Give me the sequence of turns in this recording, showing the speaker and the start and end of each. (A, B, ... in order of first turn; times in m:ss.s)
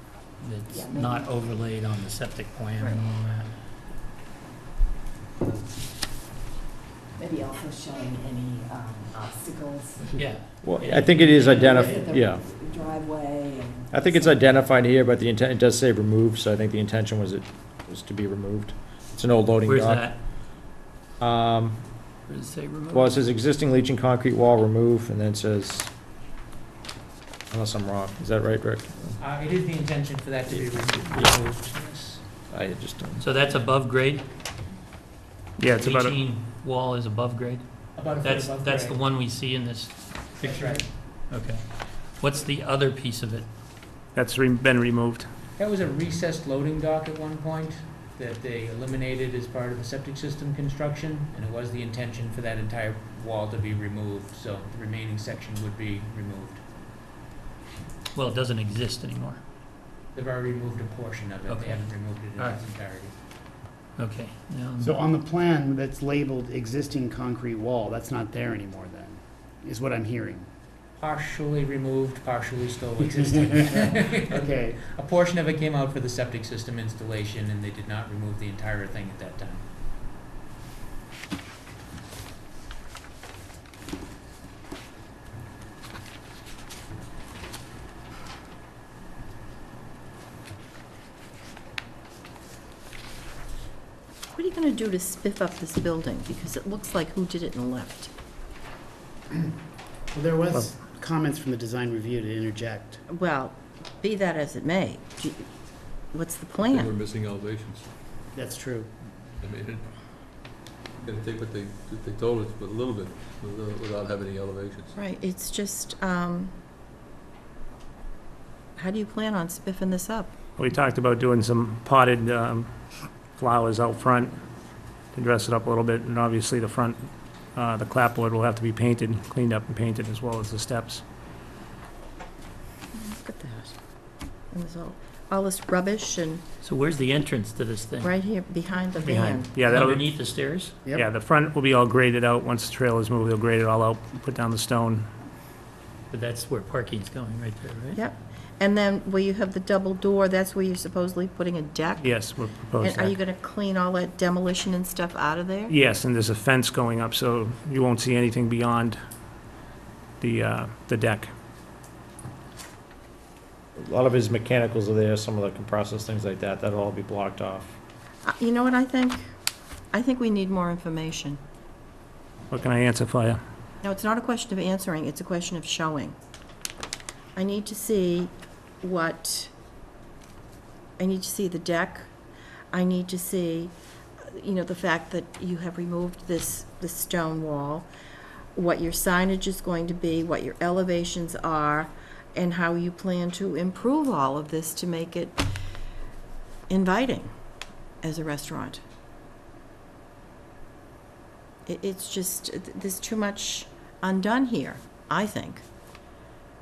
0:00.4-0:03.6 A
0:00.7-0:01.3 B
0:07.2-0:10.1 B
0:10.1-0:11.9 A
0:10.6-0:12.4 C
0:11.4-0:14.6 B
0:13.9-0:20.1 C
0:19.6-0:20.2 A
0:21.2-0:21.8 C
0:22.3-0:23.2 A
0:22.9-0:25.9 C
0:27.5-0:29.2 C
0:29.2-0:32.2 D
0:32.5-0:33.2 C
0:33.2-0:34.3 A
0:35.6-0:36.1 E
0:35.8-0:37.6 A
0:38.0-0:39.0 D
0:38.2-0:43.5 A
0:40.4-0:40.9 D
0:44.1-0:45.3 E
0:45.6-0:56.6 D
0:58.1-0:59.4 A
1:00.1-1:03.1 D
1:01.5-1:02.6 A
1:04.0-1:05.0 A
1:04.8-1:10.5 F
1:11.0-1:19.6 D
1:14.3-1:14.8 F
1:34.3-1:38.1 G
1:40.1-1:43.0 F
1:43.1-1:45.5 G
1:46.1-1:47.0 G
1:46.6-1:47.9 H
1:48.3-1:48.9 F
1:49.4-1:49.9 H
1:51.0-1:54.9 H
1:55.0-1:56.5 G
1:58.8-2:00.3 G
2:00.6-2:02.7 E
2:03.4-2:04.4 E
2:05.1-2:11.0 E
2:12.9-2:13.7 G
2:14.5-2:16.4 G
2:16.6-2:18.1 A
2:18.0-2:19.5 G
2:19.0-2:20.1 E
2:19.6-2:20.7 A
2:20.9-2:25.1 E
2:26.1-2:28.0 A
2:27.9-2:32.2 G
2:32.0-2:33.2 E
2:32.8-2:35.7 G
2:35.7-2:39.0 E
2:40.2-2:41.3 E
2:43.8-2:47.7 C
2:48.2-2:49.2 G
2:49.9-2:51.4 G
2:52.5-2:53.4 E
2:53.8-2:56.2 G
2:57.4-2:58.3 G
2:58.8-2:59.5 G
3:01.0-3:02.1 G
3:02.7-3:03.7 G
3:04.3-3:07.9 G
3:08.5-3:15.4 G
3:16.7-3:17.3 G
3:18.0-3:18.8 G
3:21.6-3:25.6 G